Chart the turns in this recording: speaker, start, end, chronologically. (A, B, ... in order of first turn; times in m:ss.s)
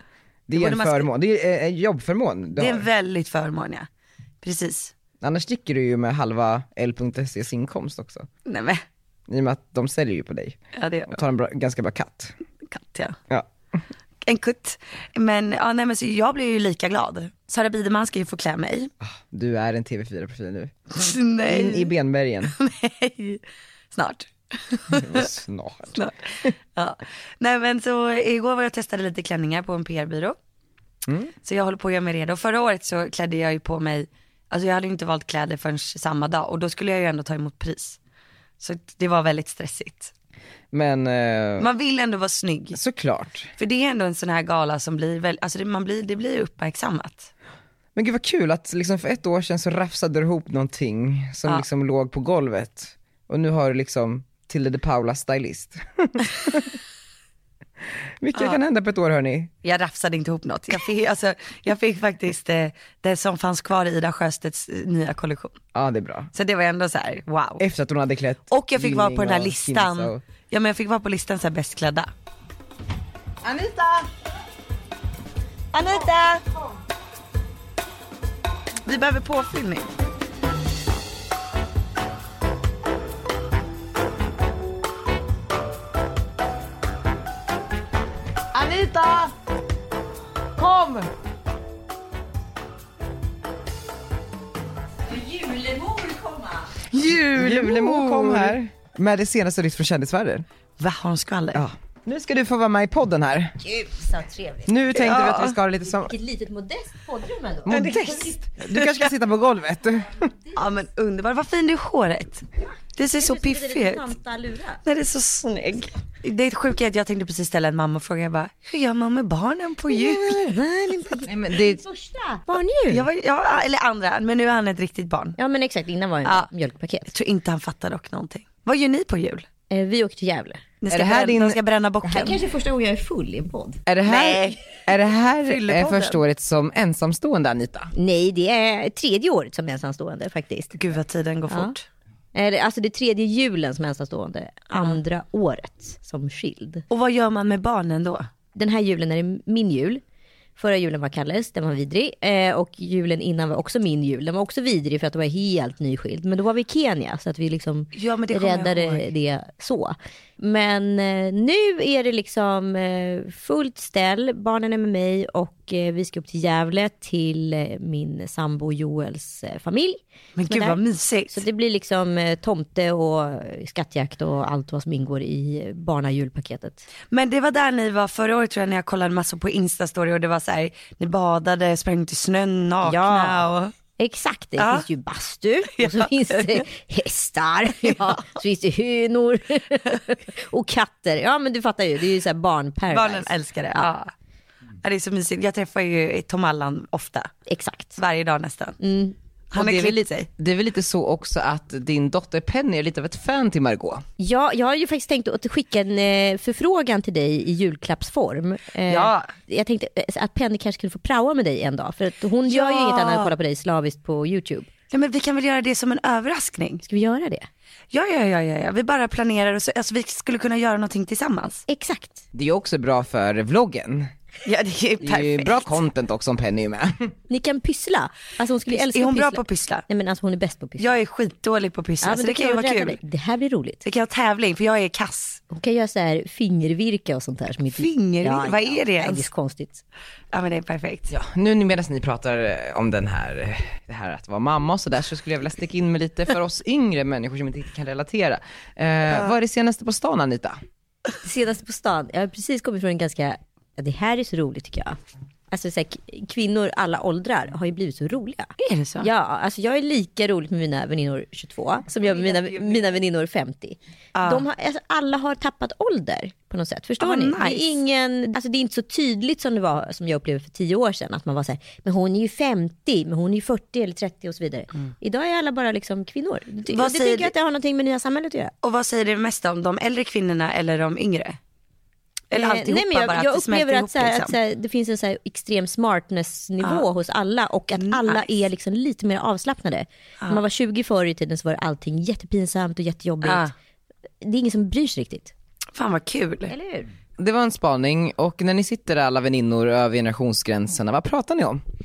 0:00.5-0:02.9 A
0:00.5-0:01.1 B
0:02.6-0:03.9 B
0:04.4-0:04.9 B
0:05.2-0:08.3 A
0:08.5-0:08.8 B
0:09.3-0:10.6 A
0:10.8-0:11.2 B
0:11.1-0:12.4 A
0:12.7-0:13.2 B
0:14.2-0:18.9 B
0:19.0-0:20.7 A
0:20.9-0:21.9 B
0:21.5-0:22.5 A
0:22.4-0:23.4 B
0:23.9-0:25.3 B
0:24.9-0:26.0 A
0:25.9-0:26.2 B
0:26.8-0:30.4 B
0:31.1-0:31.3 A
0:31.4-0:38.0 B
0:38.6-0:40.1 B
0:40.7-0:41.7 A
0:41.6-0:42.8 B
0:42.7-0:43.5 A
0:43.6-0:47.3 B
0:48.0-0:56.8 A
0:58.2-0:59.5 A
0:59.6-1:05.6 B
1:05.8-1:06.3 A
1:06.3-1:07.6 B
1:07.6-1:10.2 A
1:08.5-1:12.1 B
1:13.4-1:14.0 A
1:15.7-1:16.4 B
1:18.8-1:19.9 B
1:28.6-1:29.3 A
1:30.6-1:31.1 A
1:35.1-1:36.7 C
1:36.9-1:38.6 B
1:37.3-1:40.4 A
1:40.8-1:41.6 B
1:41.5-1:43.6 A
1:43.6-1:44.8 C
1:44.7-1:46.1 A
1:44.9-1:45.6 B
1:45.8-1:48.4 C
1:47.7-1:50.3 A
1:47.7-1:49.1 B
1:50.6-1:52.4 B
1:53.0-1:54.1 B
1:53.1-1:54.8 C
1:54.8-2:00.4 B
1:59.9-2:03.1 C
2:01.3-2:01.8 A
2:02.9-2:05.4 B
2:05.4-2:07.1 C
2:06.2-2:06.5 B
2:07.1-2:09.4 B
2:09.7-2:10.7 C
2:10.8-2:12.4 B
2:10.9-2:11.6 A
2:12.0-2:13.8 C
2:13.9-2:17.9 A
2:14.0-2:14.8 B
2:15.4-2:16.2 B
2:18.0-2:20.7 C
2:20.7-2:21.8 B
2:22.3-2:26.8 C
2:24.7-2:25.0 B
2:26.9-2:28.3 B
2:28.6-2:30.0 C
2:30.6-2:50.8 C
2:37.9-2:39.1 B
2:50.4-2:51.4 B
2:51.3-2:56.8 C
2:57.1-3:03.7 B
3:02.8-3:03.5 C
3:04.0-3:13.3 C
3:04.6-3:04.9 B
3:05.7-3:06.6 B
3:07.8-3:08.2 B
3:12.9-3:14.1 B
3:14.8-3:17.3 B
3:17.5-3:18.0 C
3:18.0-3:18.8 B
3:18.8-3:19.2 C
3:19.5-3:20.3 B
3:19.6-3:24.0 A
3:24.2-3:34.7 C
3:28.9-3:29.3 B
3:32.4-3:33.3 B
3:34.9-3:36.8 B
3:36.8-3:37.5 C
3:37.9-3:41.6 B
3:41.7-3:42.2 C
3:42.3-3:44.1 A
3:44.4-3:45.8 B
3:45.0-3:47.1 A
3:47.3-3:51.0 C
3:48.7-3:49.8 B
3:50.8-3:53.0 B
3:52.0-3:53.8 C
3:53.8-3:55.4 B
3:55.5-3:59.8 C
3:57.7-3:59.3 B
4:00.3-4:01.1 B
4:01.1-4:10.6 A
4:11.2-4:15.0 C
4:15.5-4:38.5 C
4:18.6-4:19.1 B
4:22.0-4:22.9 B
4:24.2-4:24.5 B
4:27.0-4:27.8 B
4:36.7-4:37.3 B
4:38.6-4:41.4 B
4:42.3-4:44.4 B
4:42.3-4:53.5 C
4:46.6-4:46.9 B
4:47.8-4:48.4 B
4:53.2-4:53.5 B
4:54.2-4:55.3 C
4:55.8-4:56.5 B
4:56.5-4:56.9 C
4:57.2-5:01.6 A